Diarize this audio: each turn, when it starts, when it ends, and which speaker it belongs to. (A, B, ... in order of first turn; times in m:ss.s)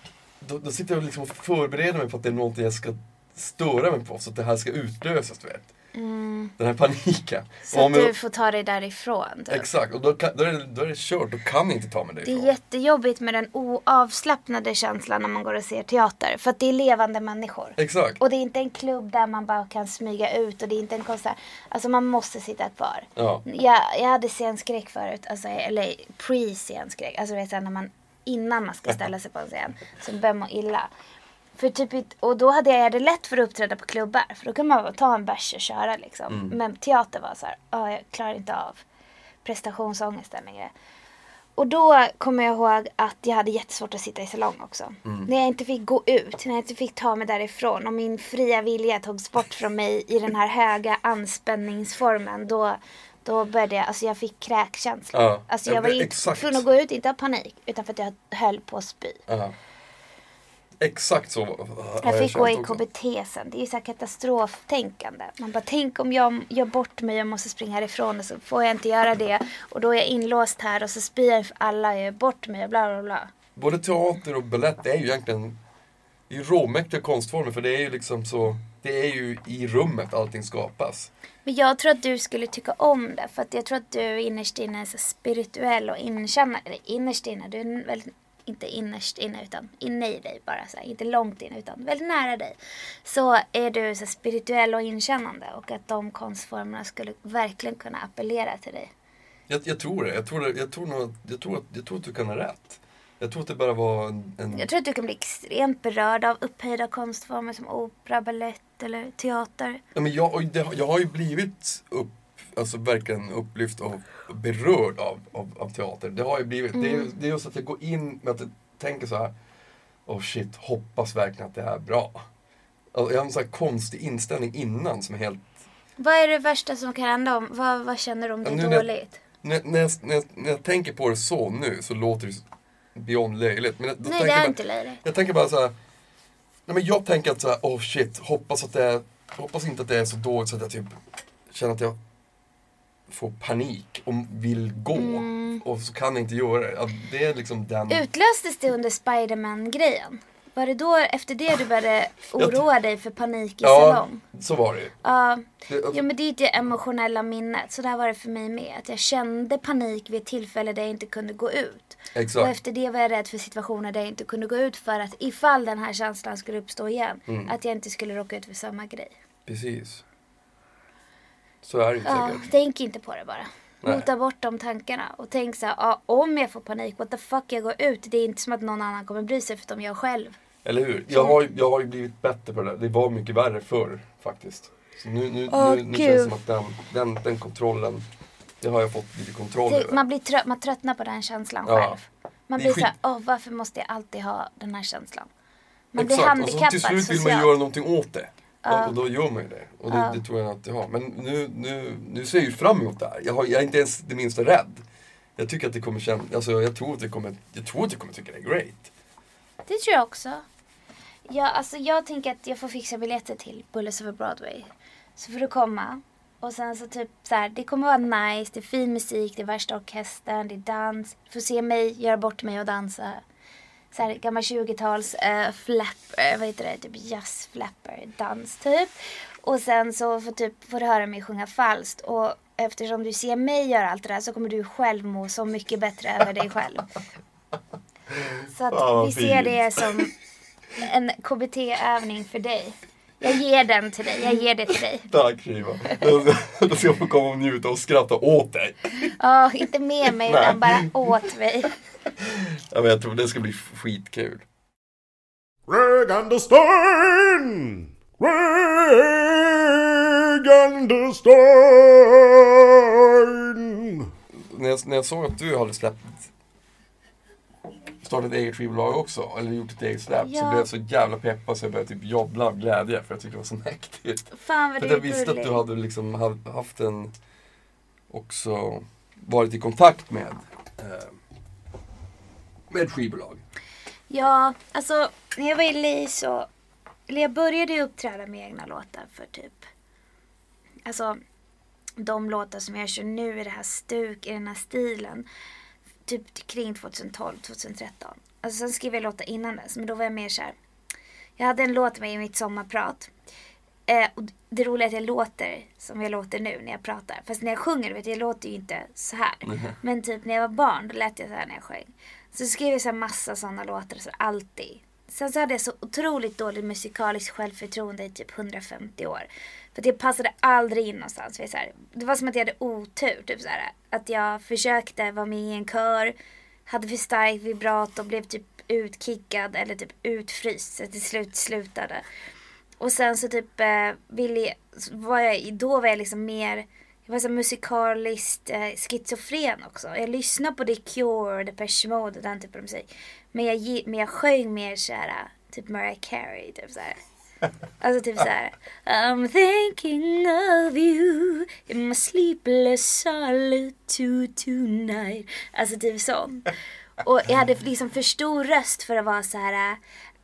0:00.4-0:05.7 A
0:05.9-0:06.5 B
0:06.6-0:08.1 A
0:07.7-0:09.7 B
0:09.5-0:12.5 A
0:12.2-0:30.9 B
0:17.8-0:18.2 A
0:23.2-0:23.4 A
0:31.6-0:38.8 B
0:36.3-0:36.6 A
0:39.4-0:40.7 B
0:41.6-0:59.2 B
0:55.1-0:56.6 A
0:59.3-0:59.5 A
1:00.8-1:02.8 A
1:02.0-1:13.3 B
1:13.6-1:15.6 A
1:16.3-1:21.1 A
1:21.4-1:38.9 B
1:39.5-1:44.7 A
1:44.5-1:49.8 B
1:49.9-1:59.3 A
1:56.7-1:57.1 B
2:00.0-2:02.3 A
2:02.9-2:05.5 A
2:06.0-2:09.2 B
2:08.4-2:08.9 A
2:09.4-2:15.8 A
2:14.0-2:15.0 B
2:16.7-2:21.0 A
2:21.5-2:22.0 A
2:23.1-2:28.0 A
2:24.9-2:25.6 B
2:27.9-2:34.2 B
2:32.4-2:32.6 A
2:33.6-2:34.9 A
2:35.0-2:49.1 B
2:35.7-2:36.0 A
2:42.1-2:42.5 A
2:47.3-2:47.5 A
2:49.5-2:50.0 A
2:51.6-2:52.5 A
2:52.0-3:00.4 B
3:00.6-3:08.0 A
3:01.1-3:01.4 B
3:05.5-3:06.4 B
3:08.6-3:10.0 A
3:09.7-3:15.3 B
3:11.6-3:12.0 A
3:12.6-3:12.9 A
3:15.9-3:17.5 B
3:16.0-3:24.8 A
3:18.6-3:18.9 B
3:19.9-3:20.2 B
3:25.4-3:28.9 A
3:29.7-3:30.4 B
3:31.3-3:43.2 B
3:43.9-3:48.9 B
3:49.4-3:56.9 B
3:58.1-3:59.9 A
3:58.5-4:00.1 B
4:00.8-4:05.1 B
4:05.1-4:09.1 A
4:09.0-4:11.8 B
4:10.2-4:10.9 A
4:12.2-4:14.4 A
4:15.7-4:24.1 C
4:24.3-4:26.3 A
4:28.0-4:37.1 A
4:30.2-4:30.7 B
4:34.3-4:35.6 B
4:38.1-4:41.2 A
4:42.7-4:43.4 A
4:44.1-4:46.5 B
4:47.1-4:49.7 B
4:50.9-4:51.2 B
4:52.0-4:55.2 B
4:56.0-5:00.6 B
5:01.4-5:03.1 B
5:03.9-5:26.1 B
5:09.4-5:09.8 A
5:26.7-5:32.0 B
5:32.8-5:47.0 B
5:47.8-5:56.5 B
5:57.0-5:59.8 B